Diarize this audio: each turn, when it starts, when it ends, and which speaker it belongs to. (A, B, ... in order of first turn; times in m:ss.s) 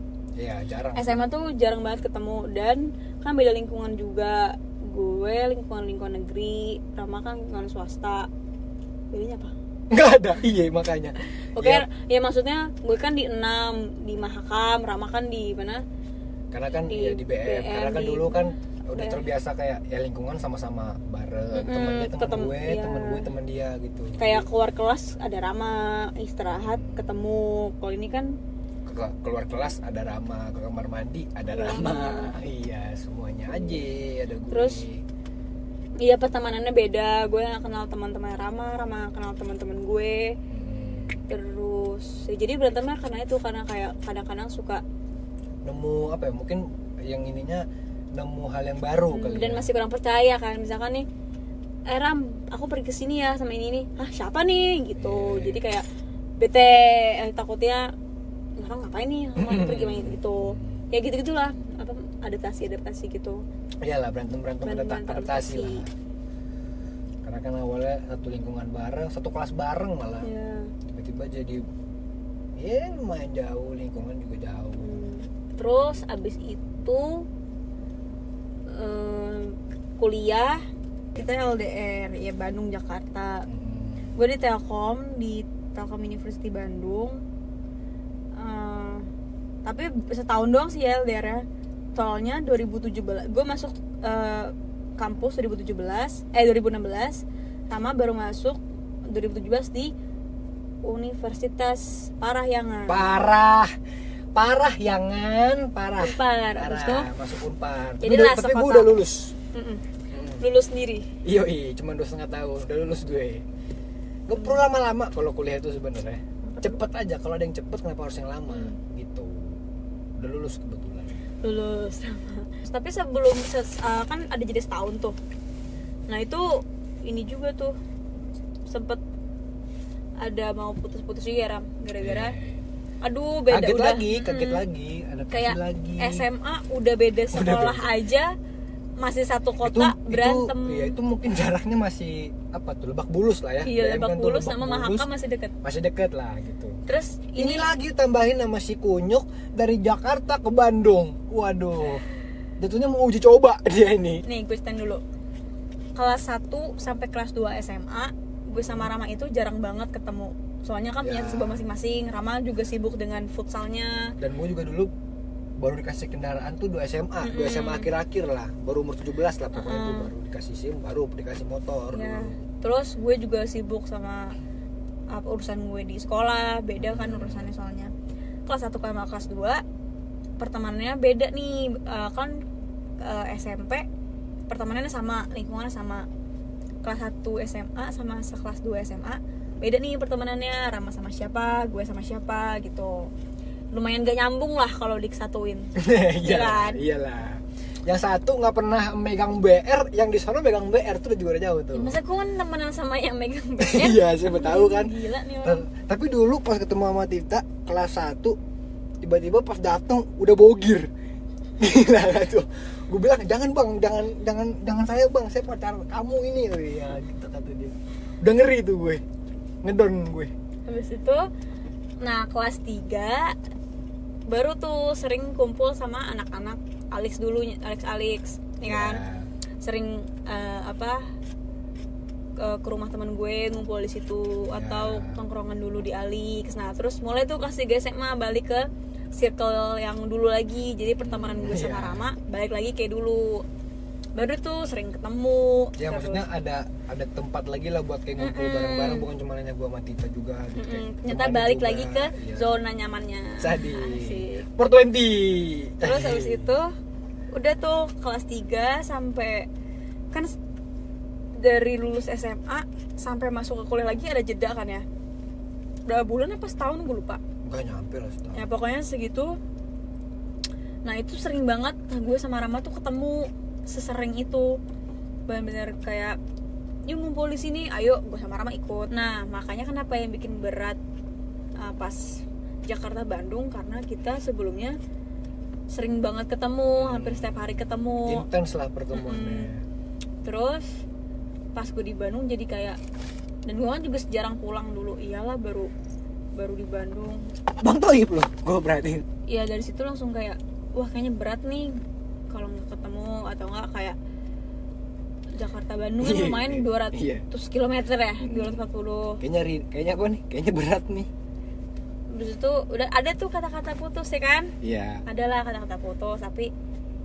0:00.4-0:01.2 A
0:01.0-0:08.3 B
0:09.1-0:09.5 B
0:09.9-0:11.9 A
0:11.6-0:15.8 B
0:16.5-0:24.5 A
0:16.9-0:19.2 B
0:21.5-0:23.3 B
0:24.2-0:28.4 B
0:26.6-0:27.2 A
0:28.9-0:35.0 A
0:31.5-0:32.3 B
0:33.5-0:33.8 B
0:34.5-0:34.8 B
0:36.0-0:40.4 B
0:40.5-0:41.2 A
0:41.3-0:44.8 B
0:45.6-0:49.7 A
0:49.1-0:51.1 B
0:51.9-0:55.8 B
0:55.0-0:55.6 A
0:56.4-0:57.9 B
0:58.6-1:03.4 B
0:59.4-1:00.8 A
1:03.8-1:05.9 A
1:04.6-1:05.8 B
1:07.2-1:10.3 A
1:10.2-1:10.7 B
1:10.9-1:11.6 A
1:12.6-1:15.0 A
1:14.8-1:17.3 B
1:18.7-1:20.6 B
1:21.2-1:23.5 B
1:23.5-1:24.2 A
1:24.2-1:27.2 B
1:28.4-1:29.0 B
1:29.6-1:38.6 B
1:39.1-1:39.9 B
1:40.8-1:43.1 B
1:42.9-1:43.7 A
1:44.4-1:49.4 A
1:46.0-1:47.1 B
1:48.0-1:48.9 B
1:49.5-1:49.8 B
1:50.1-1:50.4 A
1:50.4-1:51.1 B
1:51.2-1:53.4 A
1:54.3-1:59.6 A
1:54.4-1:54.6 B
1:56.4-1:56.8 B
1:58.5-1:58.8 B
2:00.2-2:01.2 A
2:01.4-2:05.2 B
2:06.1-2:07.8 B
2:08.7-2:09.0 B
2:10.2-2:12.4 B
2:12.0-2:12.6 A
2:13.0-2:14.6 B
2:13.5-2:16.2 A
2:15.3-2:18.3 B
2:17.3-2:17.9 A
2:19.0-2:21.0 B
2:19.6-2:25.1 A
2:23.6-2:25.5 B
2:25.6-2:26.8 A
2:26.9-2:27.7 B
2:27.4-2:32.0 A
2:32.6-2:34.2 A
2:34.3-2:35.0 B
2:36.0-2:44.2 B
2:38.5-2:38.9 A
2:41.0-2:41.6 A
2:44.2-2:44.9 A
2:45.6-2:52.4 A
2:47.2-2:47.9 B
2:49.5-2:50.1 B
2:51.9-2:54.4 B
2:55.1-2:57.9 B
2:56.8-2:57.5 A
2:58.5-2:59.6 B
3:00.4-3:02.4 B
3:03.0-3:03.9 B
3:04.5-3:06.1 B
3:06.8-3:13.1 B
3:13.7-3:16.8 B
3:15.8-3:22.0 A
3:21.7-3:25.7 B
3:23.6-3:24.9 A
3:25.4-3:28.4 A
3:29.0-3:30.9 A
3:31.6-3:39.0 A
3:39.6-3:40.3 A
3:40.7-3:41.3 B
3:42.0-3:43.4 B
3:44.3-3:49.0 B
3:48.6-3:49.3 A
3:49.6-3:51.1 B
3:52.4-4:03.4 B
3:54.5-3:55.2 A
4:01.0-4:02.1 A
4:04.2-4:06.2 B
4:05.8-4:12.5 A
4:08.2-4:09.1 B
4:10.6-4:14.5 B
4:13.4-4:16.5 A
4:15.8-4:16.7 B
4:17.3-4:19.5 B
4:21.4-4:24.9 B
4:25.9-4:27.2 B
4:27.4-4:28.5 A
4:28.3-4:29.4 B
4:30.8-4:34.6 B
4:35.3-4:36.2 B
4:36.9-4:40.8 B
4:41.6-4:44.8 B
4:45.7-4:48.3 B
4:46.8-4:49.6 A
4:48.9-4:49.5 B
4:50.2-4:50.8 B
4:51.6-4:52.8 B
4:53.5-4:55.7 B
4:56.4-4:57.3 B
4:57.6-4:59.0 A
4:59.3-5:04.0 B
5:05.4-5:09.2 B
5:06.0-5:07.3 A
5:08.2-5:08.6 A
5:09.2-5:11.1 A
5:12.1-5:14.5 B
5:14.6-5:15.0 A
5:15.1-5:16.5 B